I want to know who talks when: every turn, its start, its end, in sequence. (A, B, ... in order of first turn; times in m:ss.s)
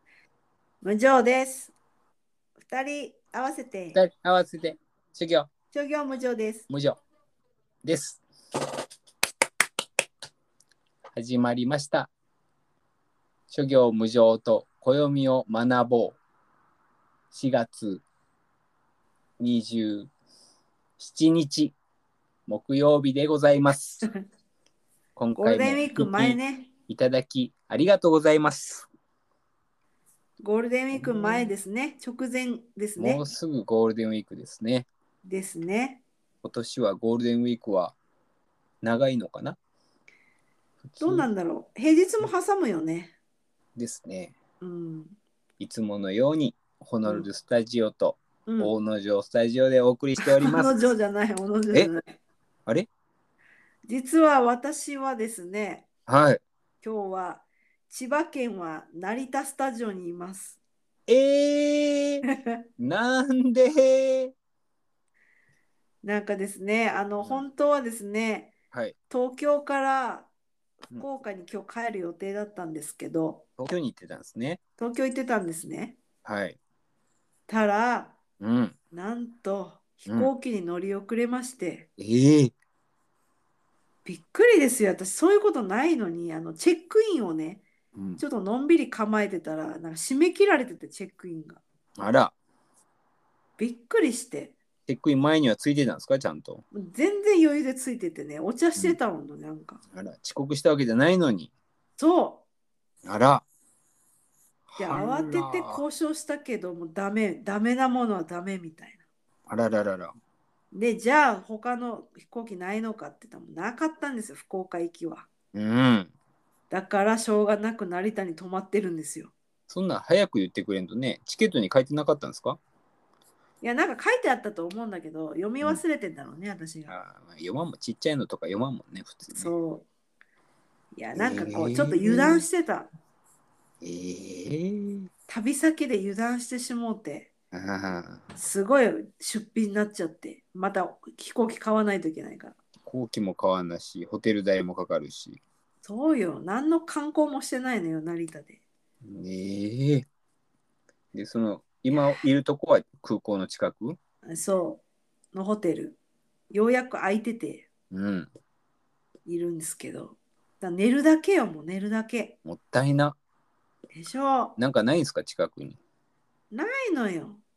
0:00.8-0:01.7 A
0:02.6-0:04.0 A
0:04.0-0:05.5 B
0:05.7-0:06.7 A
0:06.7-0:07.0 B
0:07.8-0:08.2 B
0:11.1-0:12.1 B
0:13.5-0:16.2 B
0:17.3-0:18.0 B
0:19.4-0:20.1 B
0:21.0-0:21.8 B
0:22.5-0:24.1 B
0:25.2-0:28.9 B
0:25.4-0:26.7 A
0:30.4-0:33.3 A
0:30.9-0:31.5 B
0:33.0-0:34.9 B
0:35.2-0:36.0 A
0:36.4-0:38.0 B
0:38.8-0:39.6 B
0:40.8-0:41.3 B
0:41.0-0:43.2 A
0:43.8-0:44.4 B
0:44.6-0:45.2 A
0:45.6-0:50.8 B
0:48.5-0:48.7 A
0:50.2-0:52.2 A
0:53.9-0:55.9 A
0:56.1-0:56.4 B
0:56.8-1:00.6 A
1:01.1-1:02.3 B
1:02.3-1:02.6 A
1:02.8-1:04.3 B
1:06.0-1:08.5 A
1:07.2-1:07.5 B
1:09.1-1:10.3 A
1:11.0-1:13.5 A
1:13.6-1:14.6 B
1:14.8-1:16.0 A
1:16.2-1:16.6 B
1:17.5-1:18.2 A
1:18.4-1:18.8 B
1:18.9-1:21.9 A
1:22.0-1:22.5 B
1:24.0-1:27.7 A
1:27.9-1:28.2 B
1:28.2-1:31.6 A
1:32.0-1:32.4 B
1:33.6-1:34.6 A
1:34.9-1:36.6 B
1:36.7-1:39.8 A
1:39.9-1:41.5 B
1:42.0-1:42.4 A
1:43.0-1:43.4 B
1:44.7-1:45.8 B
1:44.8-1:49.0 A
1:49.5-1:50.2 B
1:50.7-1:55.3 A
1:55.5-1:56.1 B
1:56.7-1:59.3 A
1:59.7-2:02.6 B
2:03.6-2:06.9 A
2:06.9-2:09.5 B
2:09.3-2:09.9 A
2:10.9-2:12.9 A
2:11.2-2:12.5 B
2:13.8-2:15.1 B
2:15.3-2:17.3 A
2:17.5-2:18.3 B
2:18.4-2:22.6 A
2:22.9-2:25.4 B
2:25.8-2:28.6 A
2:29.0-2:30.1 B
2:31.1-2:34.0 B
2:34.3-2:34.8 A
2:35.3-2:36.0 A
2:36.5-2:37.7 A
2:37.9-2:38.3 B
2:39.3-2:42.4 A
2:42.4-2:43.2 B
2:43.9-2:44.6 A
2:44.6-2:45.8 B
2:46.5-2:47.4 A